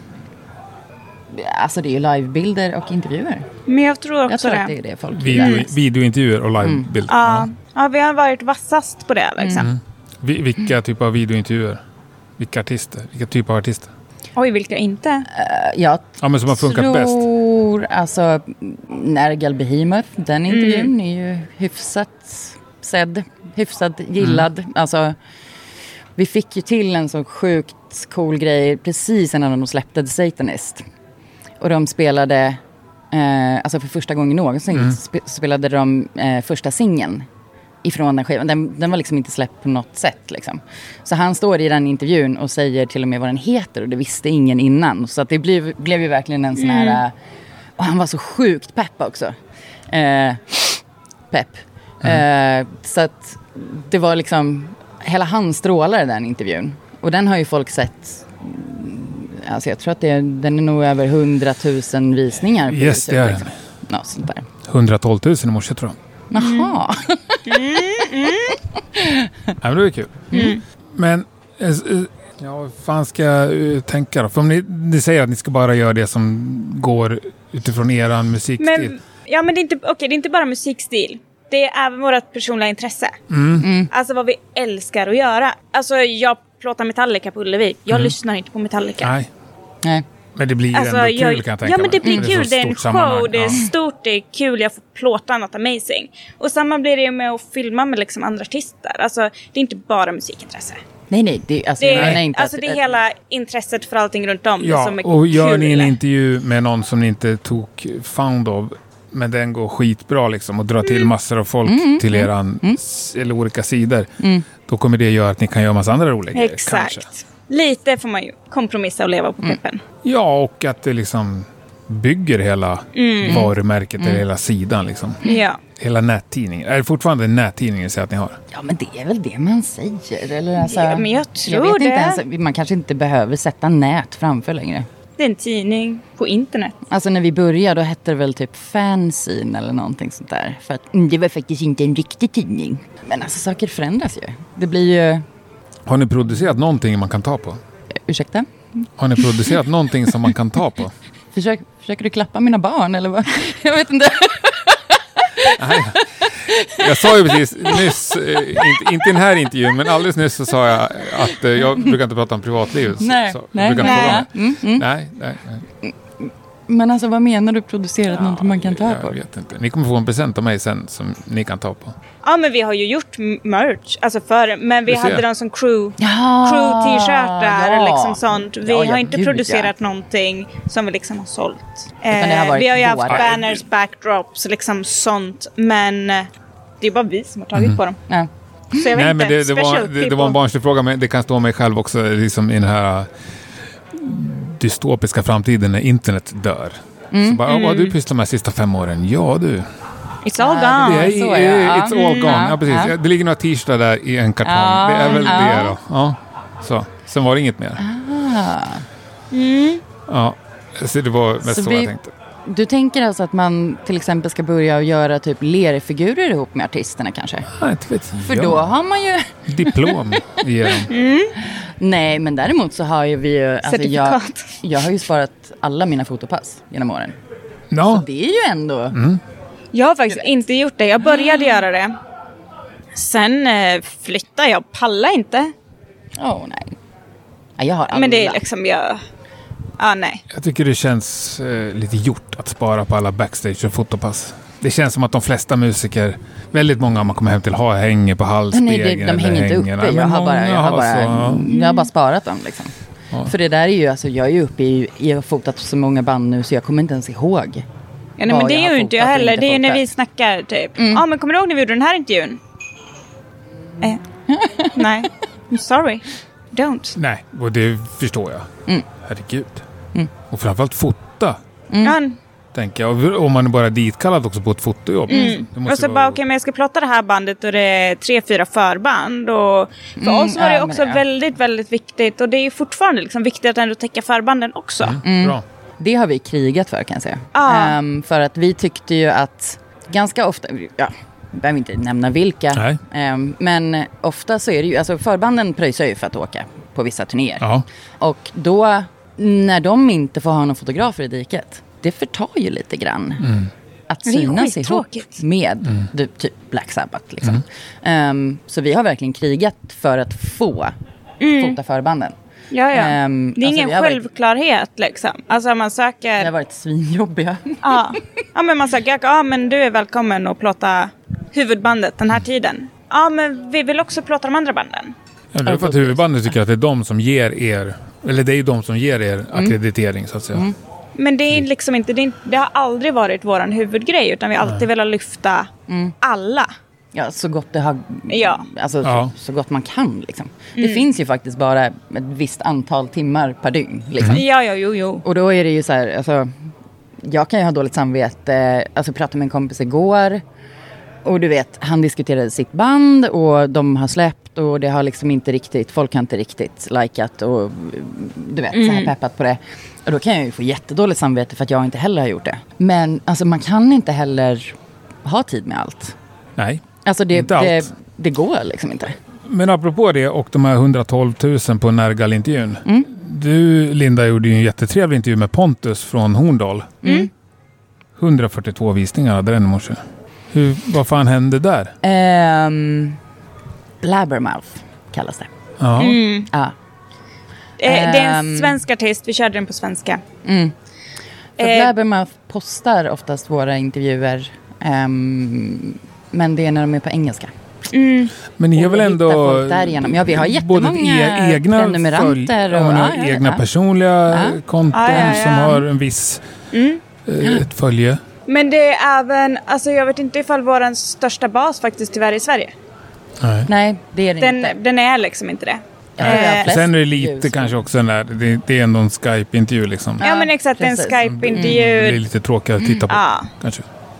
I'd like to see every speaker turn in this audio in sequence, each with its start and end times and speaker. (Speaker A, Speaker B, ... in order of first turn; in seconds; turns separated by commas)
Speaker A: 1.3-3.5, Speaker B: 3.7-4.7, Speaker A: 4.3-5.7, Speaker C: 5.1-7.5, Speaker B: 5.4-5.6, Speaker A: 6.6-6.9, Speaker B: 7.1-9.7, Speaker A: 9.4-9.7, Speaker C: 9.5-11.8, Speaker C: 12.4-13.9, Speaker B: 14.3-15.3, Speaker A: 15.3-25.1, Speaker C: 16.2-17.2, Speaker B: 20.5-20.9, Speaker A: 26.2-30.8, Speaker A: 31.6-32.6, Speaker A: 33.1-37.2, Speaker A: 37.8-47.1, Speaker B: 46.6-47.0, Speaker A: 47.8-49.3, Speaker A: 49.9-64.5, Speaker C: 62.6-63.5, Speaker C: 64.6-66.0, Speaker A: 66.3-68.2, Speaker B: 66.4-66.8, Speaker B: 67.5-68.6, Speaker A: 68.9-69.5, Speaker C: 69.6-70.3, Speaker A: 70.3-70.6, Speaker B: 70.3-70.6, Speaker C: 70.9-78.9, Speaker B: 78.6-83.2, Speaker C: 83.3-83.7, Speaker A: 83.6-83.9, Speaker B: 83.9-89.1, Speaker C: 89.0-89.3, Speaker C: 90.3-93.6, Speaker B: 90.7-100.8, Speaker A: 101.1-102.8, Speaker B: 101.8-105.9, Speaker C: 101.9-102.2, Speaker C: 104.6-114.1, Speaker B: 110.8-111.1, Speaker A: 111.6-112.8, Speaker A: 114.2-114.5, Speaker C: 114.6-117.0, Speaker B: 116.3-119.8, Speaker C: 120.0-128.4, Speaker B: 122.9-123.5, Speaker A: 123.3-124.2, Speaker B: 125.2-125.6, Speaker A: 128.5-134.9, Speaker B: 130.6-132.2, Speaker B: 135.2-136.8, Speaker A: 136.9-145.2, Speaker C: 145.8-147.6, Speaker A: 148.1-148.8, Speaker C: 149.0-150.9, Speaker A: 151.3-158.0, Speaker C: 155.5-165.6, Speaker A: 158.5-159.1, Speaker A: 163.0-164.9, Speaker B: 163.8-164.2, Speaker A: 165.8-169.2, Speaker C: 168.1-171.9, Speaker B: 172.2-186.3, Speaker C: 174.9-175.2, Speaker A: 176.0-179.7, Speaker A: 182.1-183.4, Speaker C: 183.1-183.4, Speaker B: 186.8-188.0, Speaker A: 188.1-188.8, Speaker B: 188.7-190.3, Speaker C: 188.9-193.1, Speaker C: 193.9-199.7, Speaker A: 197.1-197.4, Speaker B: 197.5-197.9, Speaker B: 200.2-201.1, Speaker A: 200.4-202.9, Speaker C: 200.7-207.8, Speaker B: 201.9-202.5, Speaker A: 204.4-205.8, Speaker B: 205.1-205.6, Speaker A: 207.8-208.8, Speaker B: 209.3-209.8, Speaker C: 210.1-212.1, Speaker A: 211.4-211.9, Speaker A: 212.4-217.5, Speaker C: 217.5-218.7, Speaker A: 218.2-220.0, Speaker C: 219.5-220.9, Speaker B: 220.9-221.3, Speaker A: 221.4-227.2, Speaker B: 223.7-224.6, Speaker C: 227.7-228.1, Speaker A: 227.8-229.0, Speaker C: 228.9-229.2, Speaker B: 229.7-231.9, Speaker B: 232.9-235.5, Speaker A: 236.2-236.8, Speaker A: 237.6-238.4, Speaker B: 237.9-239.0, Speaker B: 239.8-240.2, Speaker C: 240.3-251.5, Speaker A: 248.5-257.6, Speaker B: 251.5-251.9, Speaker B: 258.2-262.4, Speaker A: 258.3-259.9, Speaker A: 260.8-261.0, Speaker A: 264.3-264.9, Speaker B: 264.7-267.0, Speaker C: 266.9-268.5, Speaker C: 269.0-269.6, Speaker C: 270.3-271.4, Speaker A: 271.7-272.0, Speaker B: 271.8-272.2, Speaker C: 272.5-276.2, Speaker B: 275.1-285.0, Speaker A: 275.1-275.4, Speaker A: 280.0-281.0, Speaker C: 284.8-285.4, Speaker A: 285.0-297.5, Speaker B: 287.3-287.8, Speaker C: 292.5-292.8, Speaker A: 298.0-303.4, Speaker C: 303.2-303.5, Speaker A: 303.9-310.7, Speaker B: 304.1-305.2, Speaker B: 311.2-311.6, Speaker A: 311.3-312.1, Speaker B: 312.5-316.3, Speaker A: 312.7-314.0, Speaker A: 316.2-318.0, Speaker B: 317.6-324.9, Speaker C: 325.3-330.4, Speaker A: 325.4-326.0, Speaker B: 330.9-335.5, Speaker A: 335.7-335.9, Speaker B: 336.0-336.5, Speaker A: 336.9-344.2, Speaker B: 338.1-338.4, Speaker C: 338.8-339.1, Speaker B: 340.6-340.8, Speaker B: 344.0-345.0, Speaker A: 345.0-346.3, Speaker A: 347.0-350.2, Speaker A: 351.0-365.9, Speaker B: 358.5-358.9, Speaker C: 366.4-367.7, Speaker A: 366.8-369.0, Speaker C: 369.2-376.8, Speaker A: 376.8-377.1, Speaker C: 377.9-379.8, Speaker C: 380.3-381.7, Speaker A: 381.8-383.0, Speaker A: 383.8-385.3, Speaker C: 385.6-386.0, Speaker B: 385.8-386.3, Speaker A: 386.3-386.5, Speaker B: 387.6-390.0, Speaker A: 387.6-388.6, Speaker A: 390.2-390.5, Speaker A: 391.4-397.3, Speaker B: 391.4-391.7, Speaker B: 397.7-398.1, Speaker C: 398.4-406.2, Speaker A: 398.5-403.4, Speaker A: 404.1-405.3, Speaker B: 404.7-405.6, Speaker B: 406.5-406.8, Speaker C: 407.1-408.0, Speaker B: 408.3-412.5, Speaker C: 413.2-413.5, Speaker A: 413.4-414.6, Speaker B: 414.2-416.5, Speaker A: 416.0-417.6, Speaker C: 416.0-420.0, Speaker A: 420.0-421.6, Speaker B: 420.0-422.0, Speaker C: 421.0-423.6, Speaker B: 422.9-423.3